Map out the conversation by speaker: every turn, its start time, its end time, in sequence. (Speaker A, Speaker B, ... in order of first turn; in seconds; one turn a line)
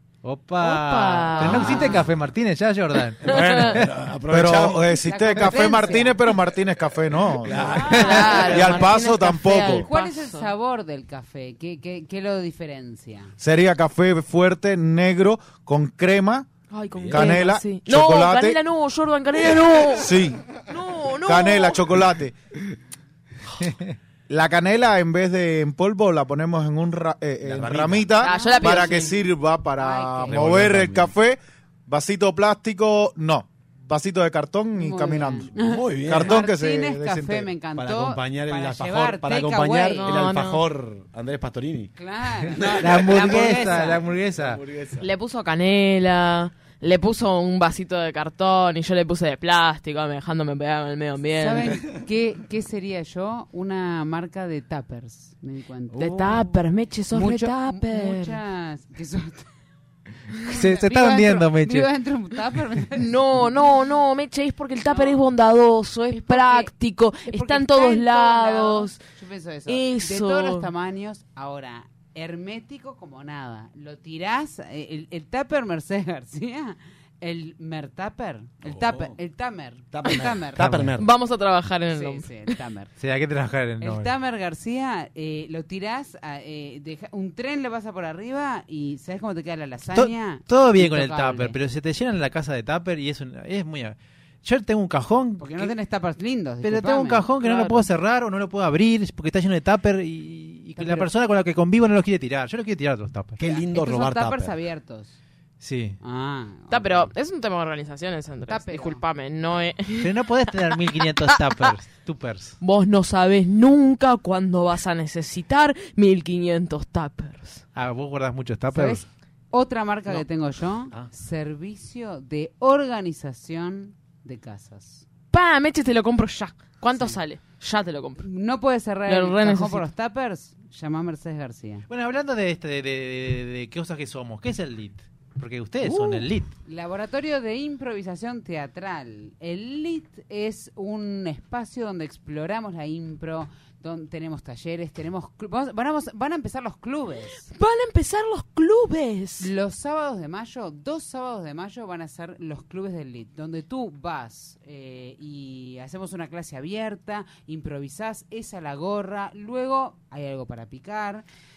Speaker A: 0.2-3.9
Speaker B: 0.6-2.0
Speaker C: 1.4-2.0
Speaker D: 3.2-5.0
Speaker B: 3.3-3.7
Speaker E: 4.3-9.9
Speaker C: 5.0-6.3
Speaker D: 7.4-8.7
Speaker C: 7.7-8.7
Speaker B: 7.9-10.5
Speaker C: 9.8-13.3
Speaker E: 13.4-16.5
Speaker B: 16.7-20.1
Speaker D: 16.9-17.4
Speaker E: 17.1-18.6
Speaker E: 20.0-20.4
Speaker B: 20.7-21.8
Speaker E: 21.2-22.4
Speaker A: 23.6-23.9
Speaker E: 24.3-35.5
Speaker D: 27.4-28.2
Speaker B: 28.2-29.2
Speaker C: 28.4-29.0
Speaker C: 29.8-30.6
Speaker D: 30.2-31.1
Speaker C: 34.8-40.2
Speaker D: 35.6-36.4
Speaker E: 36.0-37.5
Speaker D: 37.7-41.9
Speaker B: 39.9-40.6
Speaker C: 42.0-44.0
Speaker D: 42.5-43.6
Speaker A: 42.8-44.6
Speaker D: 44.4-45.1
Speaker B: 45.0-51.7
Speaker C: 51.4-56.5
Speaker B: 55.9-58.4
Speaker C: 57.1-59.5
Speaker C: 60.3-63.1
Speaker A: 60.5-61.9
Speaker B: 63.0-69.0
Speaker C: 64.9-65.2
Speaker C: 66.1-66.7
Speaker C: 67.2-80.6
Speaker B: 69.7-70.7
Speaker D: 78.6-79.2
Speaker D: 79.9-81.1
Speaker A: 80.6-80.9
Speaker B: 81.0-82.3
Speaker C: 81.9-82.9
Speaker A: 83.0-84.1
Speaker C: 83.8-91.5
Speaker A: 89.9-95.7
Speaker C: 95.4-97.3
Speaker A: 96.6-103.4
Speaker B: 97.4-97.8
Speaker C: 100.8-101.1
Speaker D: 103.4-104.5
Speaker C: 103.4-105.2
Speaker A: 105.6-106.0
Speaker C: 106.0-107.1
Speaker B: 106.7-110.1
Speaker C: 108.5-109.0
Speaker A: 110.0-112.6
Speaker B: 111.3-111.7
Speaker B: 112.6-117.6
Speaker A: 117.7-119.0
Speaker C: 118.7-125.0
Speaker B: 125.3-128.2
Speaker C: 128.2-131.8
Speaker B: 129.1-129.9
Speaker A: 131.9-136.5
Speaker C: 135.8-147.5
Speaker B: 147.5-149.5
Speaker C: 149.4-161.2